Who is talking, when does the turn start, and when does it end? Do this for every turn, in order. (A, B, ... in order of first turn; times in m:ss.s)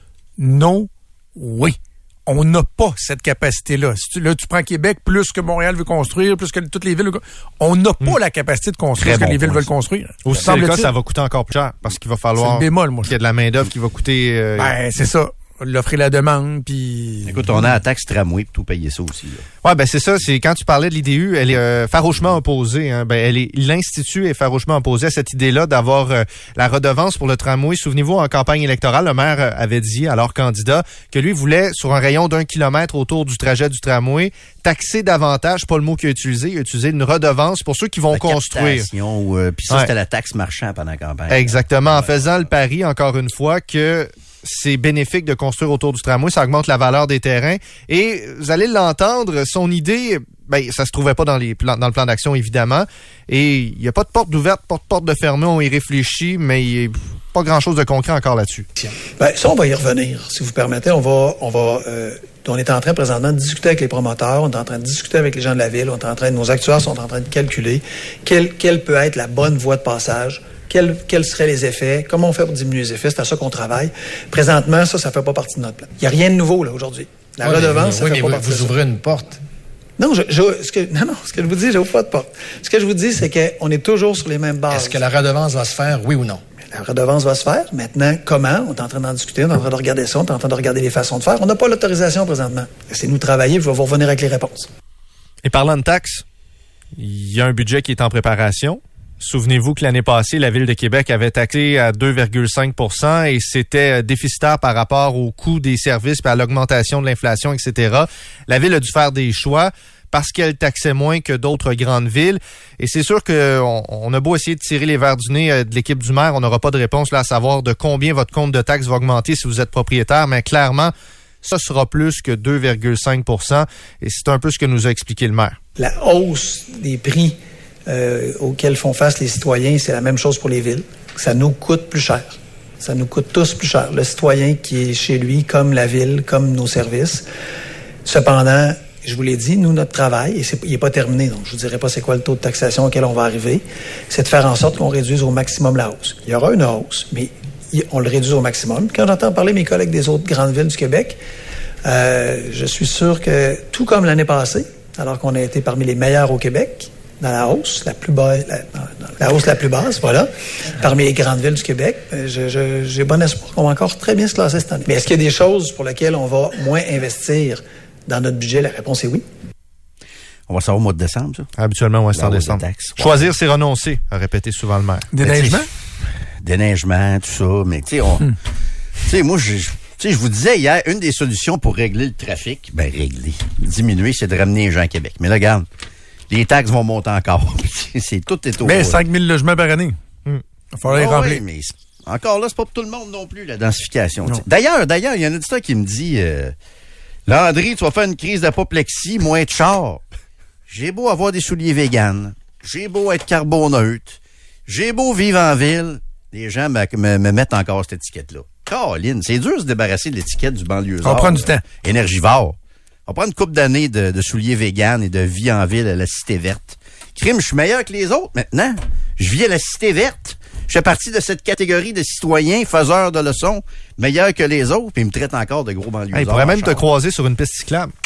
0:00.4-0:10.9 A
0:09.0-0:09.7 B
0:10.2-0:14.7 C
0:12.4-0:13.1 A
0:14.6-0:17.6 A
0:17.2-0:19.5 B
0:19.6-0:38.9 C
0:38.1-0:42.5 B
0:41.3-0:58.6 C
0:59.2-1:18.8 D
1:17.4-1:19.4 E
1:20.0-1:25.0 D
1:24.7-1:26.4 E
1:26.7-1:34.7 D
1:35.4-1:36.2 C
1:37.0-2:05.6 C
2:05.8-2:17.2 D
2:18.0-2:31.2 D
2:31.8-2:49.2 D
2:50.5-2:51.5 B
2:51.6-2:55.1 C
2:52.1-2:53.3 B
2:55.1-2:55.7 A
2:55.2-2:55.6 B
2:56.4-2:58.3 B
2:59.0-3:05.7 B
3:06.3-3:09.0 B
3:08.6-3:10.0 A
3:10.7-3:11.4 A
3:10.9-3:16.5 B
3:17.2-3:20.0 B
3:20.7-3:46.9 B
3:31.0-3:31.6 A
3:46.1-3:47.9 C